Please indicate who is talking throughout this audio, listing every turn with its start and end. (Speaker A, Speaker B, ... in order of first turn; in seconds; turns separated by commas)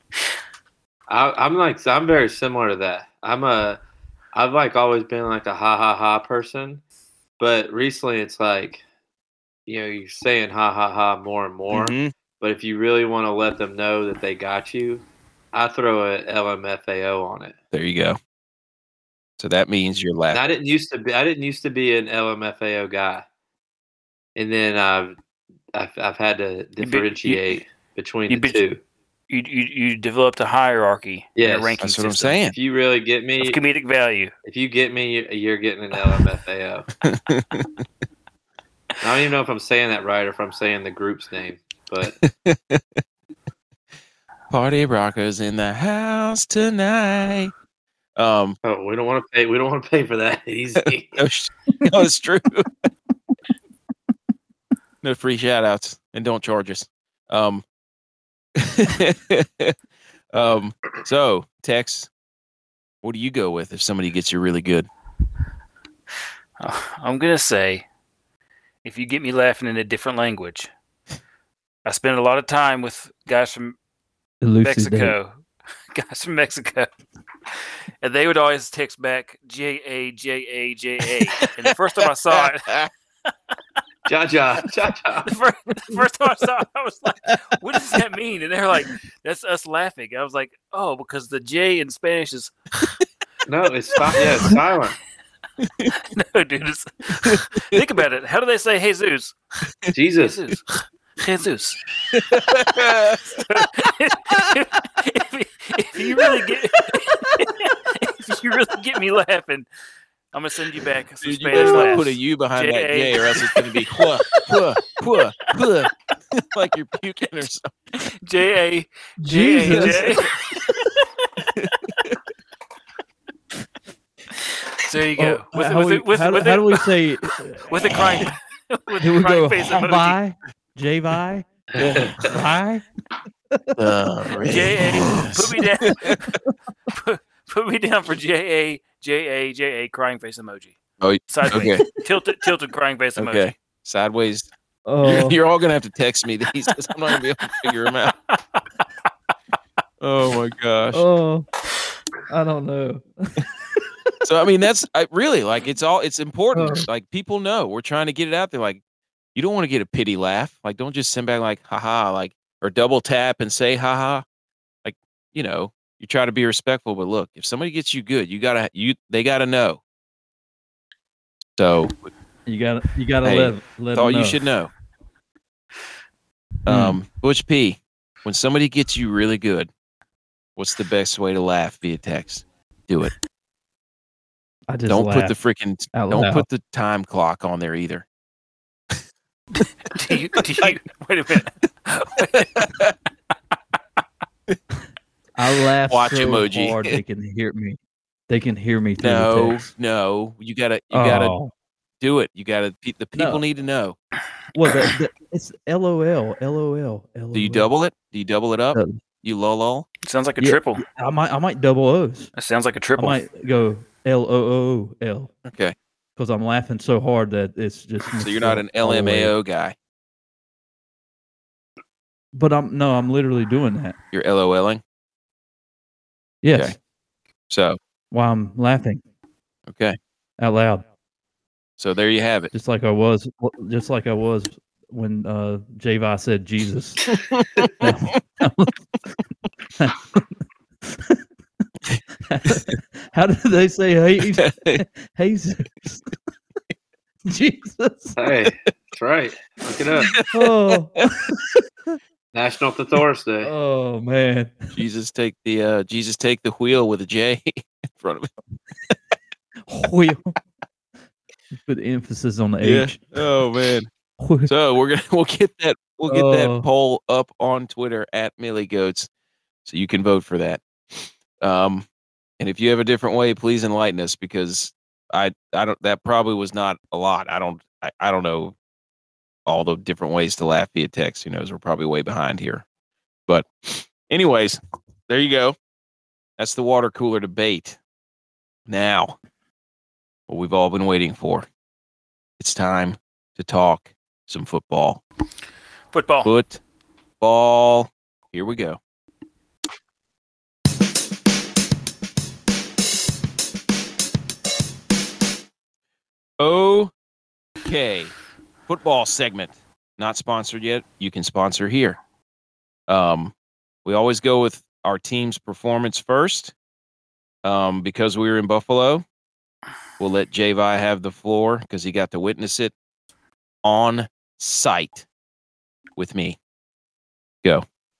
Speaker A: 1.1-3.8, Speaker A: 4.3-6.8, Speaker A: 7.4-8.8, Speaker A: 9.7-17.6, Speaker B: 11.7-12.1, Speaker B: 17.7-18.2, Speaker B: 19.4-20.4, Speaker A: 20.3-23.2, Speaker A: 24.4-25.2, Speaker A: 25.7-28.8, Speaker C: 26.8-27.3, Speaker C: 28.3-28.6, Speaker C: 29.3-32.4, Speaker A: 31.4-31.8, Speaker B: 31.8-32.5, Speaker A: 32.5-33.6, Speaker C: 33.4-34.3, Speaker A: 34.4-36.9, Speaker B: 37.0-37.7, Speaker A: 39.0-42.2, Speaker B: 42.2-42.8, Speaker B: 44.5-47.5, Speaker B: 48.1-48.6, Speaker A: 48.6-51.2, Speaker B: 50.8-52.7, Speaker B: 55.0-57.6, Speaker B: 58.6-59.7, Speaker B: 60.3-62.1, Speaker B: 63.0-64.9, Speaker C: 66.6-67.8, Speaker C: 68.8-70.7, Speaker C: 71.8-73.8, Speaker D: 74.4-75.1, Speaker C: 74.6-75.3, Speaker C: 75.9-76.9, Speaker C: 78.0-82.8, Speaker B: 82.3-82.9, Speaker A: 84.0-85.3, Speaker C: 85.2-93.0, Speaker A: 93.5-95.0, Speaker C: 94.2-94.5, Speaker B: 95.6-95.9, Speaker C: 95.9-99.3, Speaker B: 97.2-97.8, Speaker A: 99.9-100.4, Speaker C: 100.2-101.8, Speaker B: 102.1-103.6, Speaker C: 103.3-109.7, Speaker C: 110.3-114.1, Speaker B: 111.2-117.7, Speaker D: 111.5-112.0, Speaker C: 118.0-120.3, Speaker D: 119.2-120.2, Speaker B: 119.7-120.3, Speaker B: 121.5-122.2, Speaker C: 124.7-126.8, Speaker D: 125.2-128.1, Speaker C: 127.7-130.2, Speaker D: 129.0-132.8, Speaker A: 131.7-132.3, Speaker B: 133.8-136.2, Speaker C: 134.4-136.0, Speaker C: 136.9-140.8, Speaker B: 141.0-141.8, Speaker C: 141.3-143.5, Speaker B: 143.2-144.5, Speaker D: 144.8-145.4, Speaker B: 145.0-148.1, Speaker B: 150.0-151.0, Speaker D: 150.9-151.4, Speaker D: 152.3-153.4, Speaker B: 154.2-158.8, Speaker D: 156.5-156.9, Speaker B: 159.3-164.2, Speaker B: 164.8-169.8, Speaker B: 171.6-172.1, Speaker D: 172.5-174.4, Speaker B: 173.2-174.7, Speaker B: 176.7-179.7, Speaker D: 176.7-177.0, Speaker B: 180.6-183.1, Speaker D: 184.7-185.3, Speaker B: 184.9-188.0, Speaker D: 185.9-186.4, Speaker C: 189.8-192.7, Speaker B: 190.4-190.8, Speaker B: 192.3-192.9, Speaker D: 195.4-197.8, Speaker B: 195.9-197.0, Speaker D: 198.3-199.7, Speaker B: 199.0-201.3, Speaker D: 200.9-201.5, Speaker B: 202.0-204.0, Speaker D: 203.2-203.4, Speaker D: 204.5-207.7, Speaker B: 207.3-209.9, Speaker D: 208.7-209.0, Speaker C: 210.0-210.8, Speaker D: 210.4-212.3, Speaker C: 212.3-213.2, Speaker D: 213.0-215.3, Speaker B: 215.4-215.7, Speaker D: 216.2-219.3, Speaker B: 218.2-219.7, Speaker D: 222.3-224.0, Speaker B: 224.1-224.8, Speaker D: 226.4-226.8, Speaker B: 227.5-227.8, Speaker D: 228.1-229.0, Speaker B: 229.7-230.0, Speaker D: 230.4-230.8, Speaker B: 231.8-232.5, Speaker D: 232.5-237.0, Speaker B: 237.3-237.7, Speaker D: 237.8-238.8, Speaker D: 239.8-240.3, Speaker D: 240.8-241.2, Speaker D: 242.3-246.1, Speaker B: 244.4-244.8, Speaker D: 247.3-248.2, Speaker A: 248.2-250.2, Speaker B: 250.1-251.0, Speaker D: 250.3-252.0, Speaker A: 252.3-253.5, Speaker D: 253.4-254.7, Speaker B: 254.7-258.3, Speaker D: 259.7-260.4, Speaker D: 261.6-263.2, Speaker B: 262.6-263.9, Speaker D: 264.2-264.5, Speaker B: 264.5-269.1, Speaker D: 266.1-266.7, Speaker B: 269.6-271.8, Speaker B: 272.4-278.5, Speaker B: 279.4-282.6, Speaker B: 283.3-285.6, Speaker B: 286.4-287.8, Speaker B: 288.7-289.2, Speaker B: 290.3-291.4, Speaker B: 292.4-295.0, Speaker C: 295.9-296.3, Speaker B: 296.2-296.6, Speaker B: 297.2-298.8, Speaker B: 306.4-306.9, Speaker B: 307.6-308.1, Speaker B: 308.7-312.0, Speaker B: 312.9-313.3, Speaker B: 313.8-316.5, Speaker B: 317.4-319.0, Speaker B: 320.0-322.7, Speaker B: 323.6-325.0, Speaker B: 326.0-326.4